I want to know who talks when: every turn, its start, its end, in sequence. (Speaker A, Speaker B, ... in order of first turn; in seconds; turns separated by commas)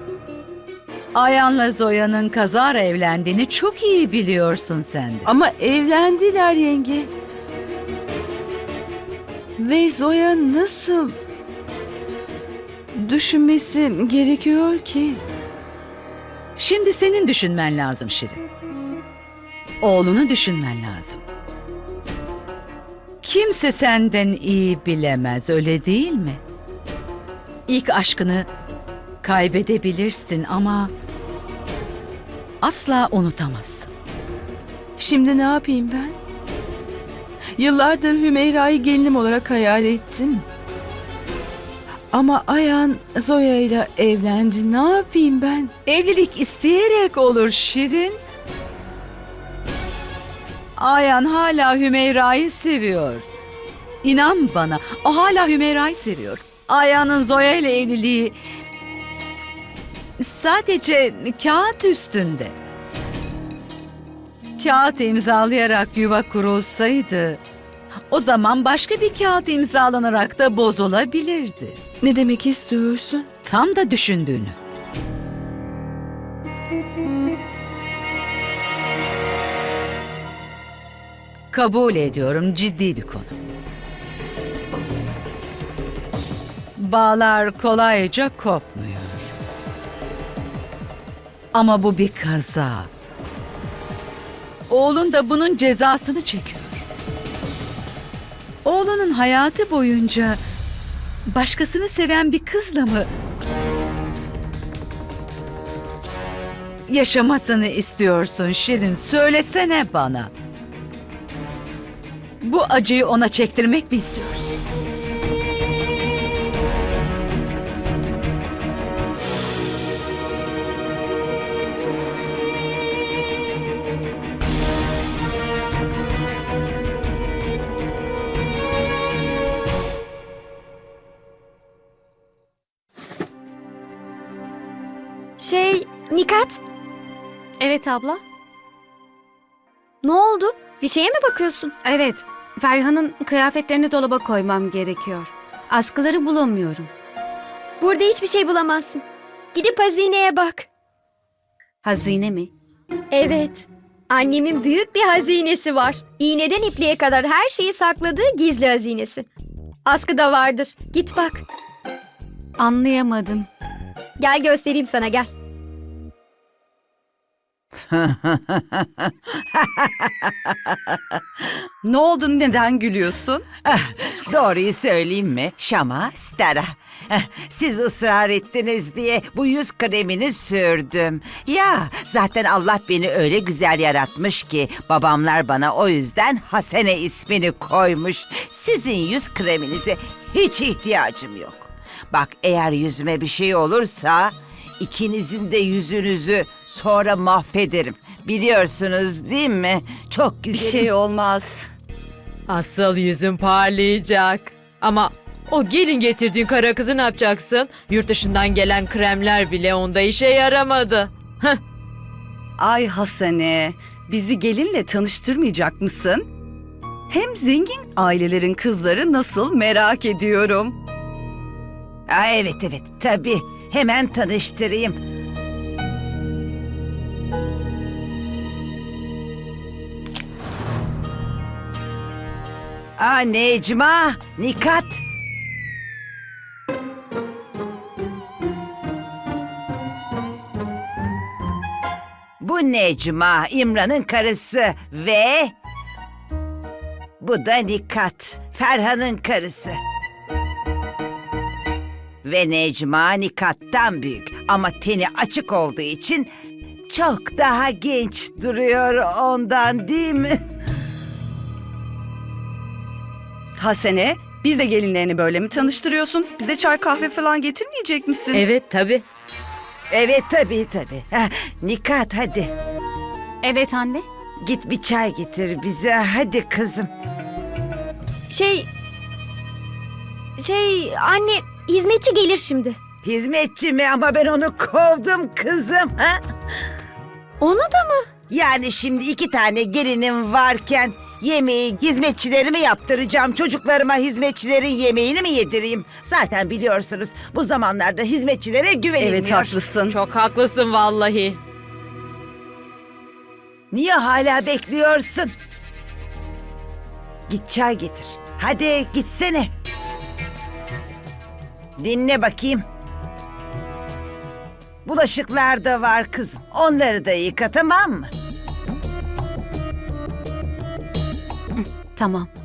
Speaker A: 1.1-5.3, Speaker B: 5.2-7.1, Speaker B: 9.6-11.2, Speaker B: 12.9-15.2, Speaker A: 16.6-18.4, Speaker A: 19.8-21.2, Speaker A: 23.2-26.4, Speaker A: 27.7-28.5, Speaker A: 29.2-30.9, Speaker A: 32.6-33.9, Speaker B: 35.0-36.1, Speaker B: 37.6-40.4, Speaker B: 42.1-45.7, Speaker A: 45.9-48.2, Speaker A: 50.8-53.3, Speaker A: 54.0-58.4, Speaker A: 60.2-62.5, Speaker A: 64.6-67.4, Speaker A: 68.1-71.8, Speaker B: 72.0-73.3, Speaker A: 73.4-74.5, Speaker A: 81.5-83.4, Speaker A: 86.8-89.3, Speaker A: 91.5-92.9, Speaker A: 94.7-96.8, Speaker A: 98.6-100.4, Speaker A: 101.2-103.1, Speaker A: 106.9-110.3, Speaker A: 112.4-114.6, Speaker C: 135.4-136.6, Speaker D: 137.6-138.2, Speaker C: 140.0-141.7, Speaker D: 141.8-146.9, Speaker C: 147.8-149.0, Speaker C: 149.6-150.6, Speaker D: 151.8-152.5, Speaker C: 153.1-153.6, Speaker C: 154.1-159.2, Speaker C: 159.9-161.3, Speaker D: 162.6-163.5, Speaker C: 164.2-165.3, Speaker E: 167.9-171.0, Speaker F: 171.8-173.4, Speaker E: 173.6-200.9, Speaker F: 200.5-201.7, Speaker G: 202.5-211.6, Speaker F: 212.6-216.2, Speaker F: 217.1-220.8, Speaker E: 222.1-225.0, Speaker E: 233.0-235.0, Speaker E: 242.4-245.5, Speaker E: 247.2-249.8, Speaker E: 252.2-256.3, Speaker E: 256.9-260.4, Speaker F: 263.6-268.4, Speaker G: 268.3-269.0, Speaker E: 269.9-272.5, Speaker D: 273.4-274.0, Speaker E: 274.4-276.9, Speaker C: 278.3-278.7, Speaker C: 280.4-282.7, Speaker E: 283.0-286.2, Speaker C: 287.4-288.0, Speaker E: 288.3-299.6, Speaker F: 299.0-300.0, Speaker G: 299.9-301.4, Speaker E: 303.7-305.3, Speaker E: 307.3-309.5, Speaker E: 311.8-312.6, Speaker E: 314.8-318.1, Speaker D: 321.6-322.3